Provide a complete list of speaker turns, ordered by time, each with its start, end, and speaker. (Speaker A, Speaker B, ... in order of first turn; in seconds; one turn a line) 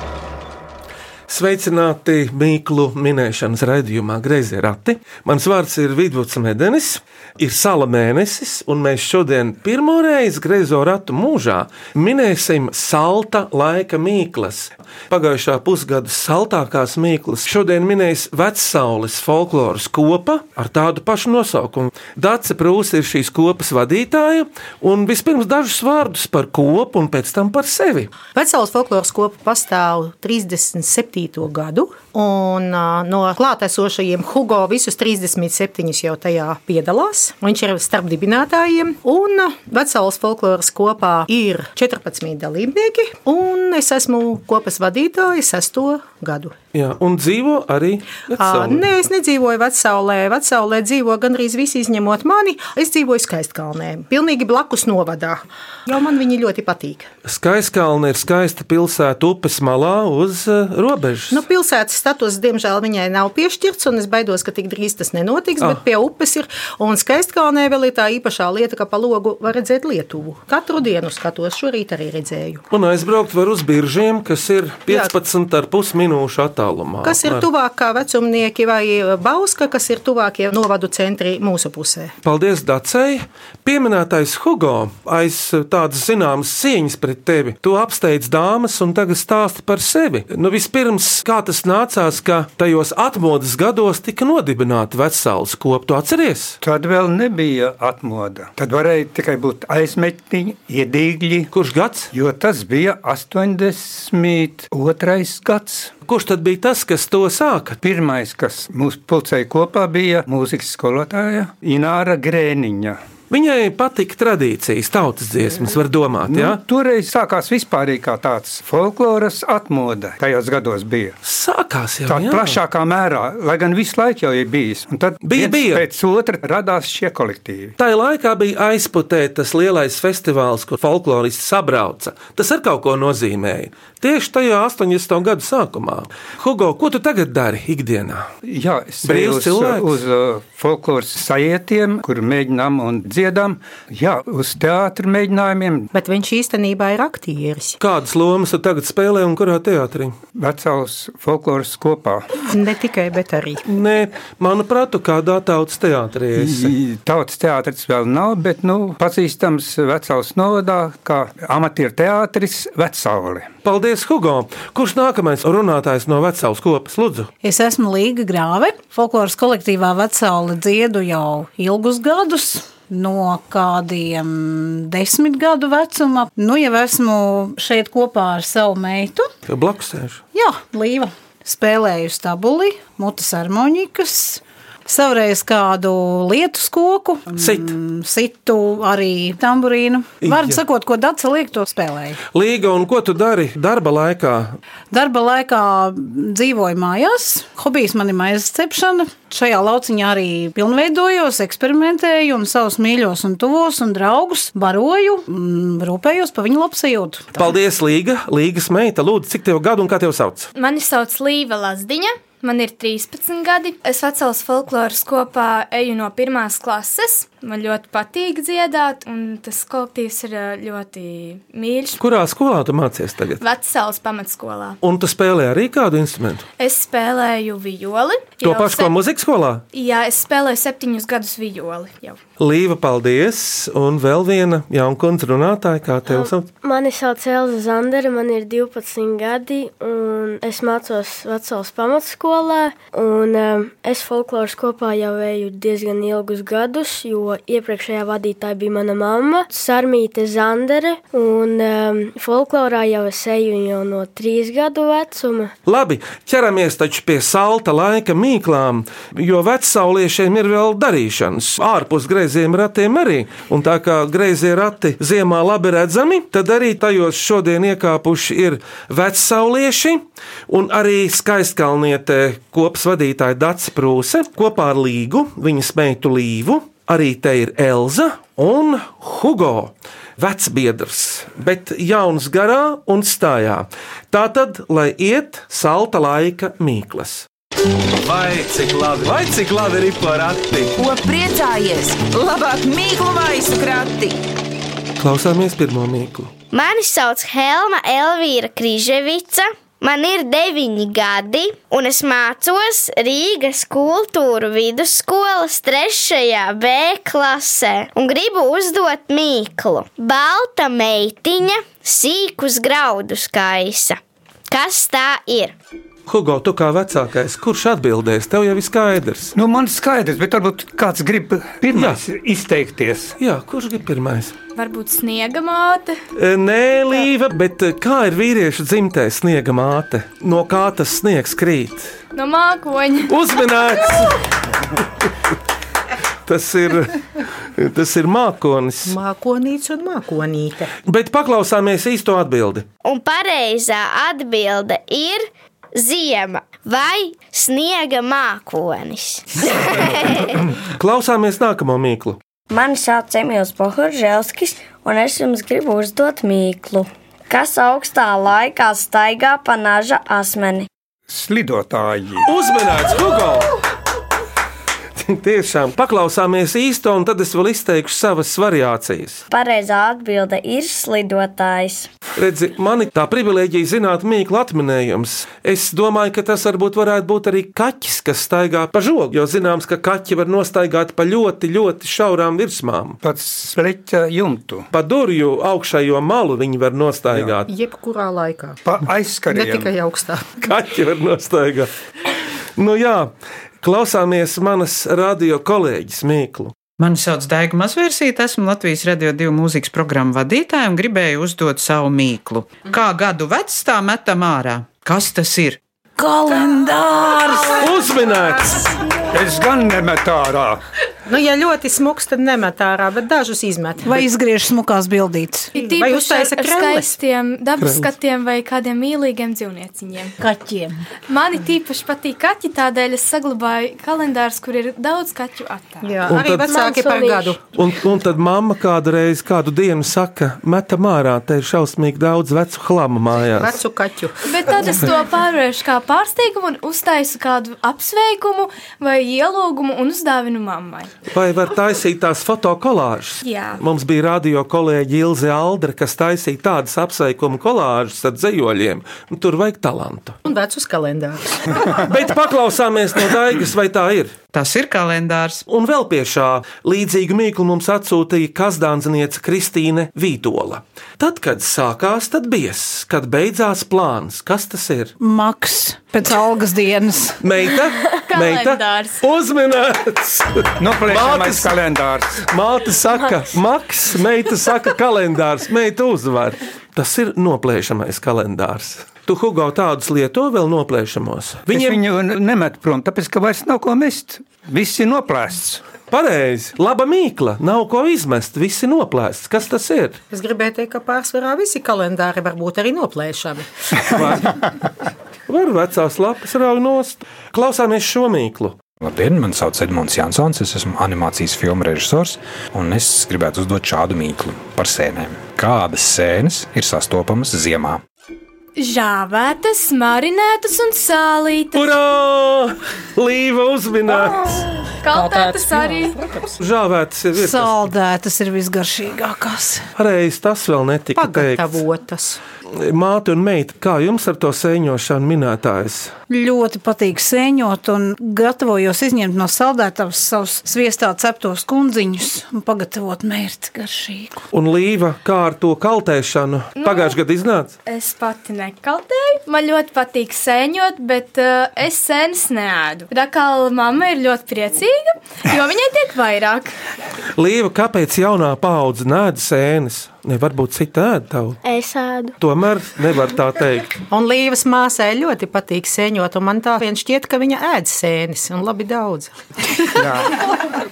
Speaker A: 1.3-28.1
Speaker B: 28.3-46.5
Speaker A: 46.7-48.8
Speaker B: 48.4-57.1
Speaker A: 57.2-61.4
Speaker B: 61.3-72.6
Speaker A: 72.7-77.5
Speaker B: 77.0-82.1
Speaker A: 82.2-96.6
Speaker C: 96.6-101.5
Speaker A: 101.5-102.1
Speaker C: 102.1-105.9
Speaker A: 106.0-107.8
Speaker C: 107.8-113.0
Speaker A: 113.3-116.6
Speaker C: 116.3-121.2
Speaker A: 121.2-122.6
Speaker C: 122.1-127.8
Speaker A: 125.2-125.8
Speaker A: 127.8-138.3
Speaker C: 138.4-145.9
Speaker A: 139.0-139.9
Speaker B: 145.9-147.8
Speaker A: 147.8-150.2
Speaker C: 150.3-152.2
Speaker B: 152.5-153.6
Speaker A: 153.7-156.7
Speaker C: 156.3-163.5
Speaker A: 163.6-167.3
Speaker D: 167.4-179.3
Speaker A: 179.5-180.2
Speaker D: 180.3-192.2
Speaker A: 187.4-187.7
Speaker A: 190.2-190.6
Speaker A: 192.3-194.6
Speaker D: 194.9-207.3
Speaker A: 207.3-210.5
Speaker E: 210.6-222.0
Speaker A: 222.0-223.4
Speaker E: 223.4-224.8
Speaker A: 224.8-226.4
Speaker E: 226.6-228.9
Speaker A: 228.4-229.6
Speaker E: 229.7-232.2
Speaker A: 232.4-236.5
Speaker F: 236.1-255.5
Speaker A: 255.7-287.3
Speaker A: 287.9-290.8
Speaker G: 290.8-294.2
Speaker A: 295.0-296.3
Speaker H: 296.5-315.5
Speaker A: 316.1-319.3
Speaker C: 319.3-323.1
Speaker A: 321.7-322.0
Speaker A: 323.2-324.3
Speaker E: 324.6-326.0
Speaker A: 326.1-332.0
Speaker E: 332.1-333.1
Speaker A: 333.1-334.2
Speaker A: 336.2-338.9
Speaker B: 338.9-340.7
Speaker A: 340.9-342.6
Speaker H: 342.8-350.1
Speaker A: 350.8-352.2
Speaker I: 352.5-360.7
Speaker C: 361.1-362.3
Speaker A: 362.2-363.5
Speaker A: 365.0-369.2
Speaker I: 369.3-371.9
Speaker A: 372.1-383.0
Speaker C: 383.0-384.7
Speaker A: 384.7-387.5
Speaker B: 387.5-388.6
Speaker C: 388.6-389.7
Speaker B: 389.3-390.2
Speaker A: 390.4-391.7
Speaker A: 392.6-396.5
Speaker J: 396.8-405.6
Speaker D: 406.0-407.8
Speaker A: 407.6-408.7
Speaker C: 409.1-410.6
Speaker B: 411.1-414.0
Speaker D: 413.8-415.5
Speaker E: 415.5-420.1
Speaker B: 415.6-416.9
Speaker A: 417.6-417.9
Speaker D: 420.2-420.8
Speaker E: 421.1-426.0
Speaker B: 425.8-427.4
Speaker A: 426.1-426.6
Speaker F: 426.5-427.4
Speaker A: 427.5-433.6
Speaker B: 433.4-434.8
Speaker E: 434.2-440.9
Speaker A: 441.1-450.2
Speaker E: 443.2-443.6
Speaker B: 450.2-451.8
Speaker A: 451.8-454.1
Speaker J: 454.3-455.4
Speaker A: 455.5-464.9
Speaker D: 465.0-467.2
Speaker A: 467.2-471.6
Speaker E: 467.9-469.0
Speaker C: 470.6-472.2
Speaker A: 472.2-481.8
Speaker C: 481.5-485.6
Speaker A: 485.9-490.0
Speaker B: 490.1-494.2
Speaker A: 495.3-498.6
Speaker K: 498.8-507.8
Speaker E: 508.6-511.8
Speaker A: 511.5-514.5
Speaker E: 514.8-516.0
Speaker B: 514.9-516.4
Speaker A: 516.4-517.7
Speaker D: 517.1-519.6
Speaker A: 519.8-521.6
Speaker B: 521.0-522.2
Speaker A: 522.5-525.9
Speaker D: 526.1-534.2
Speaker A: 534.3-537.5
Speaker E: 536.5-537.0
Speaker E: 537.6-546.5
Speaker A: 547.1-551.4
Speaker F: 551.4-552.1
Speaker A: 552.2-553.7
Speaker B: 553.9-559.1
Speaker C: 559.7-560.1